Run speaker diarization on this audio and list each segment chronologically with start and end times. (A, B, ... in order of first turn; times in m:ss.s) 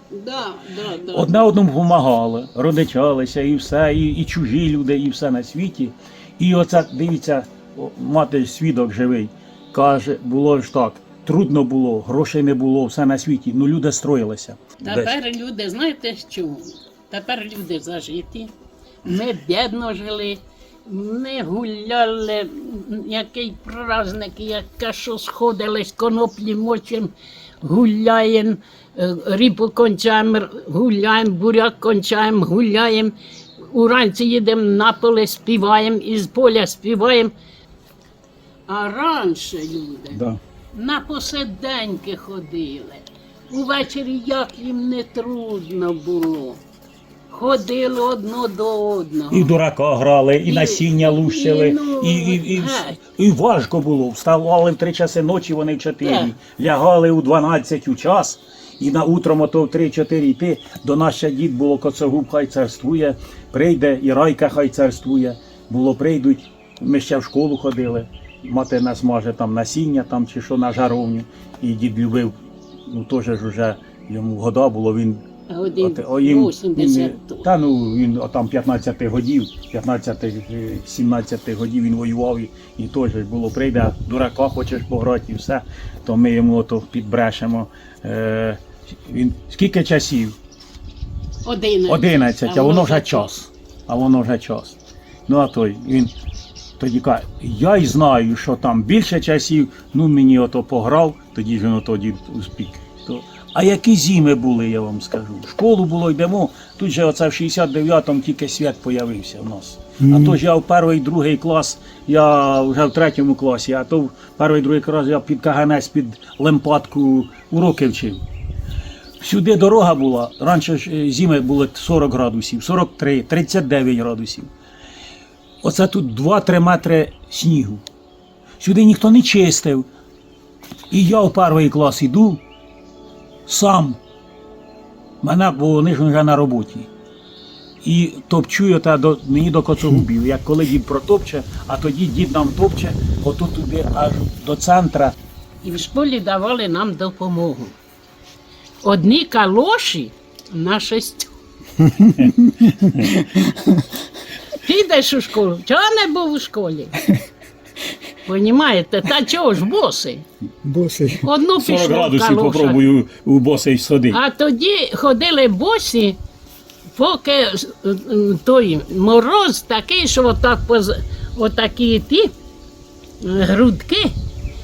0:00.1-0:01.4 A
0:01.1-0:15.1 B
0:14.8-0:18.5 A
0:19.0-0:33.1 A
0:33.7-0:37.3 A
0:38.7-0:40.2 A
0:40.1-0:40.4 B
0:40.7-0:46.6 A
0:47.3-0:49.5 A
0:49.3-1:12.3 B
0:50.5-0:53.0 A
0:56.0-0:56.3 A
1:12.9-1:15.2 B
1:15.5-1:17.5 A
1:15.8-1:30.3 B
1:31.4-1:33.3 A
1:31.9-1:36.1 B
1:36.8-1:58.2 B
1:50.0-1:50.4 C
1:59.2-2:04.5 B
2:05.6-2:07.8 B
2:08.6-2:09.9 B
2:10.9-2:12.4 B
2:13.5-2:14.0 B
2:15.2-2:16.9 B
2:17.8-2:25.1 B
2:25.6-2:27.8 A
2:28.8-2:31.3 A
2:31.8-2:33.5 C
2:32.2-2:33.2 B
2:34.6-2:37.0 A
2:38.2-2:40.2 A
2:40.6-2:41.2 C
2:41.2-2:42.8 A
2:41.6-2:44.2 B
2:44.1-2:46.2 A
2:46.9-2:52.3 A
2:53.2-2:54.1 A